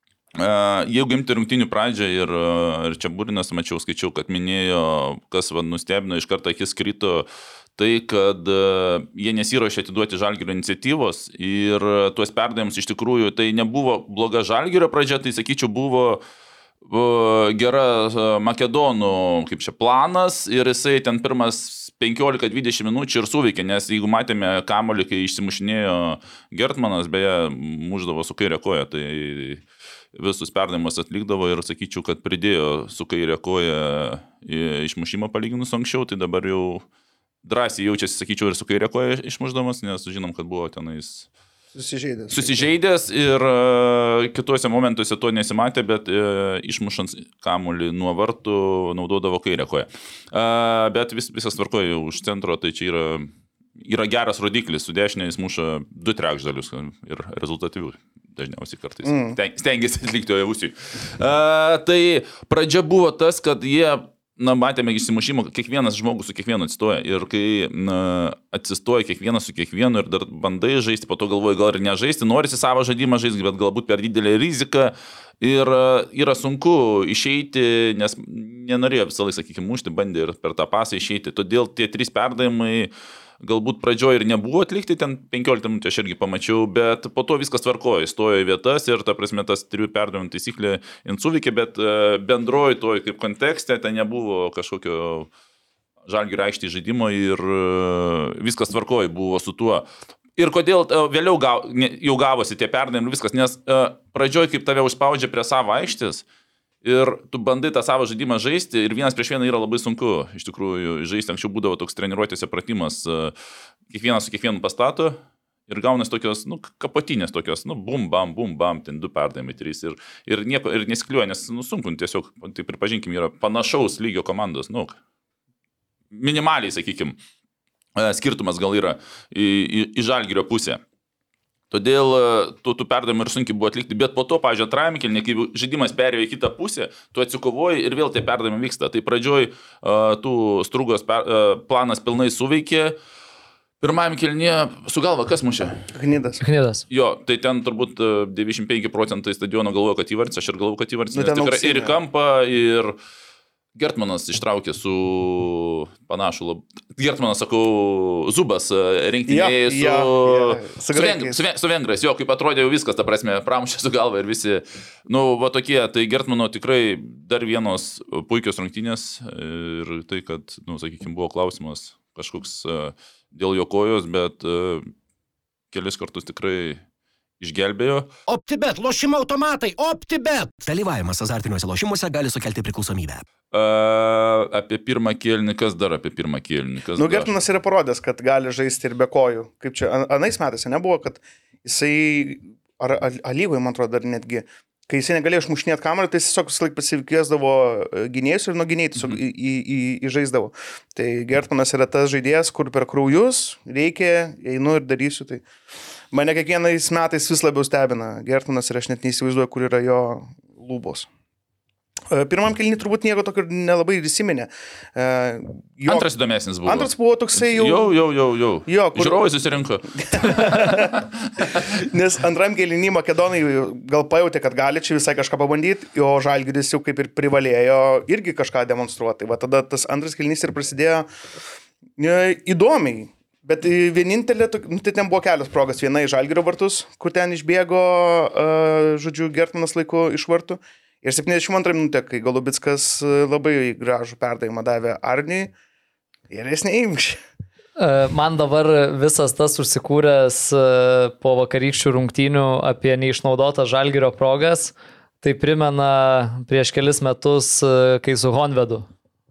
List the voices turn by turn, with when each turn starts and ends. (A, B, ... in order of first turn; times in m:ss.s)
0:00.4-0:16.2 A
0:16.8-0:29.6 A
0:30.2-0:36.8 A
0:37.4-0:41.3 A
0:41.7-0:42.7 B
0:42.3-1:35.3 A
0:59.0-0:59.4 B
1:36.1-1:39.9 A
1:40.4-1:46.2 A
1:46.8-1:53.3 A
1:53.9-2:05.0 A
2:06.1-2:07.2 A
2:08.0-2:10.8 A
2:11.7-2:23.0 A
2:23.8-2:25.8 A
2:25.9-2:26.4 B
2:26.4-2:26.8 C
2:26.9-2:33.0 A
2:31.1-2:32.0 B
2:33.8-2:54.9 A
2:39.3-2:41.4 B
2:55.7-2:56.8 A
2:57.4-2:58.1 A
2:58.3-3:00.6 D
3:00.6-3:03.2 E
3:03.5-3:07.3 A
3:07.0-3:25.4 B
3:26.1-3:31.1 B
3:32.1-3:36.1 B
3:35.9-3:41.7 A
3:36.6-3:38.0 B
3:38.7-3:39.3 B
3:40.0-3:51.1 B
3:52.0-4:05.5 B
4:06.3-4:07.2 B
4:07.8-4:18.9 C